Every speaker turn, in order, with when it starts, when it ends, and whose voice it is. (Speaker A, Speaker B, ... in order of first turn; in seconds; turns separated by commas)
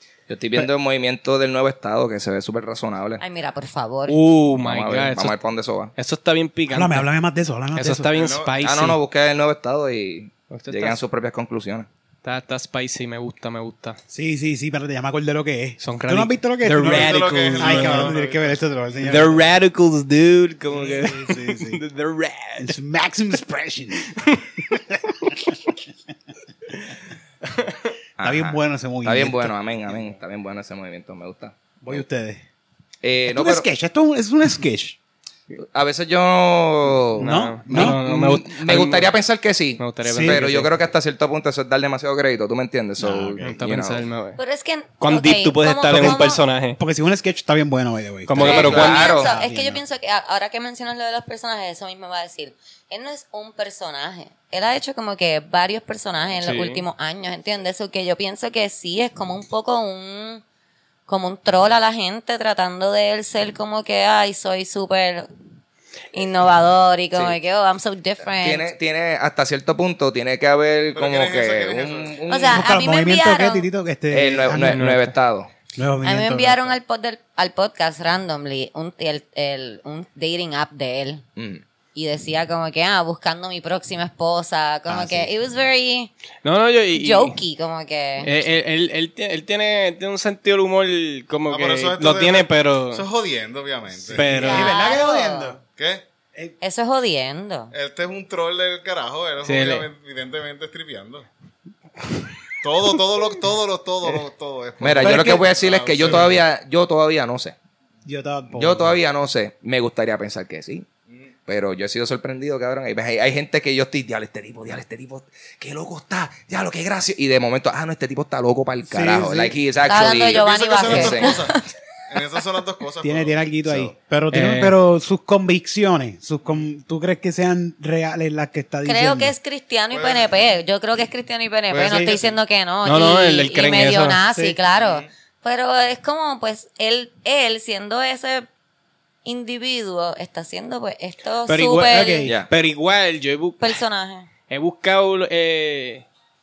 Speaker A: 0.3-3.2, Speaker B: 3.2-4.2, Speaker C: 4.1-5.4, Speaker A: 4.6-5.9, Speaker C: 6.0-7.0, Speaker D: 6.7-8.1, Speaker C: 7.7-9.0, Speaker E: 8.1-8.5, Speaker A: 8.6-11.9, Speaker C: 10.5-11.0, Speaker C: 12.2-14.0, Speaker D: 14.1-19.4, Speaker C: 15.8-18.1, Speaker E: 16.8-19.1, Speaker C: 19.1-22.8, Speaker D: 20.9-21.8, Speaker D: 22.6-24.1, Speaker C: 24.1-24.4, Speaker D: 24.7-25.6, Speaker A: 28.2-32.0, Speaker D: 28.2-29.5, Speaker D: 31.8-32.4, Speaker A: 33.0-33.7, Speaker D: 33.3-35.0, Speaker A: 35.7-44.0, Speaker D: 37.2-38.0, Speaker C: 37.2-39.1, Speaker C: 39.8-40.7, Speaker D: 40.0-40.5, Speaker D: 43.0-43.5, Speaker C: 43.4-44.4, Speaker B: 44.4-46.4, Speaker C: 45.0-46.8, Speaker D: 45.9-49.8, Speaker C: 48.2-49.1, Speaker A: 48.4-49.3, Speaker B: 48.4-60.4, Speaker C: 56.4-56.8, Speaker B: 61.1-65.3, Speaker B: 66.1-68.7, Speaker A: 68.4-72.7, Speaker E: 70.9-72.2, Speaker B: 72.3-73.7, Speaker D: 72.5-74.8, Speaker A: 74.1-75.5, Speaker C: 74.6-75.1, Speaker D: 75.7-76.7, Speaker B: 76.0-81.2, Speaker A: 81.4-81.6, Speaker B: 81.9-86.1, Speaker D: 84.9-85.3, Speaker C: 86.4-87.4, Speaker B: 86.9-88.3, Speaker C: 88.2-93.0, Speaker E: 91.5-94.3, Speaker C: 94.1-94.7, Speaker D: 94.2-95.6, Speaker B: 94.2-95.5, Speaker E: 95.8-96.0, Speaker B: 96.6-97.7, Speaker E: 97.7-101.3, Speaker C: 99.4-99.9, Speaker E: 102.6-106.4, Speaker A: 104.8-107.5, Speaker D: 105.0-105.5, Speaker D: 106.0-106.3, Speaker D: 108.0-109.0, Speaker A: 108.5-110.9, Speaker A: 111.5-121.4, Speaker D: 118.8-119.6, Speaker B: 119.8-121.6, Speaker E: 120.3-123.4, Speaker D: 123.0-129.3, Speaker A: 123.6-123.9, Speaker C: 124.3-124.7, Speaker B: 128.8-138.5, Speaker E: 129.9-130.4, Speaker D: 131.7-132.2, Speaker E: 131.9-132.3, Speaker C: 132.8-134.2, Speaker D: 134.3-134.6, Speaker E: 134.8-135.1, Speaker B: 139.2-142.2, Speaker C: 141.5-143.8, Speaker D: 141.9-142.3, Speaker B: 143.6-144.3, Speaker C: 144.5-146.0